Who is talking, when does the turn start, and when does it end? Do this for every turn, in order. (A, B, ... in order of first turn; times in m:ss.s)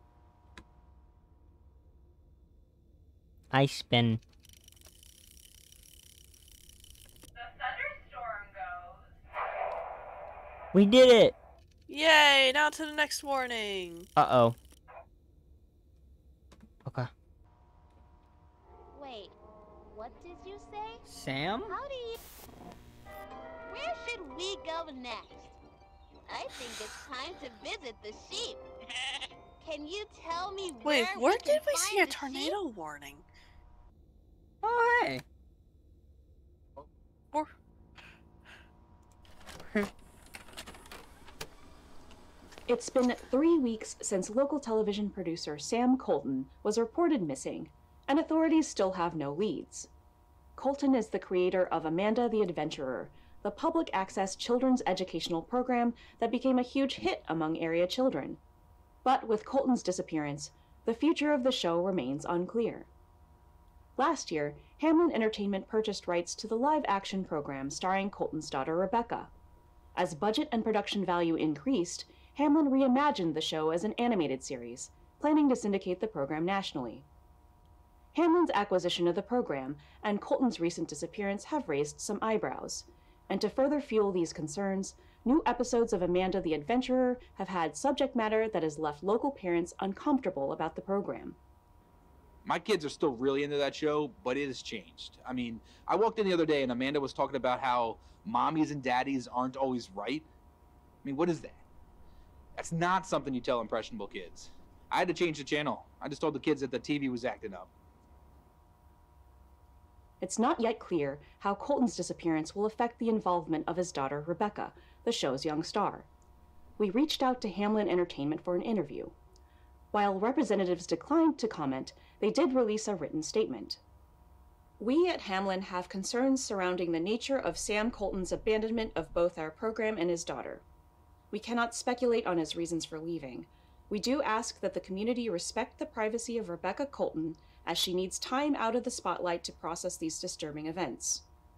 0:03.5-0:04.2 A
0:10.7-0:11.4 A
0:11.9-0:14.1 B
0:14.2-0:14.6 A
0:16.8-0:17.1 A
0:18.9-0:19.4 C
0:19.9-0:21.0 C
0:21.0-0:21.8 A
0:21.7-0:22.2 C
0:23.7-0:25.6 C
0:26.3-0:28.6 C
0:29.6-0:32.6 C
0:30.8-0:33.2 B
0:34.6-0:35.2 A
0:42.7-0:49.9 D
0:50.6-0:58.4 D
0:59.0-1:02.9 D
1:04.0-1:09.3 D
1:10.0-1:17.1 D
1:18.1-1:31.4 D
1:32.4-1:40.3 E
1:41.0-1:41.6 E
1:42.6-1:47.7 E
1:50.2-1:56.1 D
1:56.8-1:59.2 D
1:59.9-2:03.8 D
2:04.8-2:10.6 D
2:11.3-2:21.2 D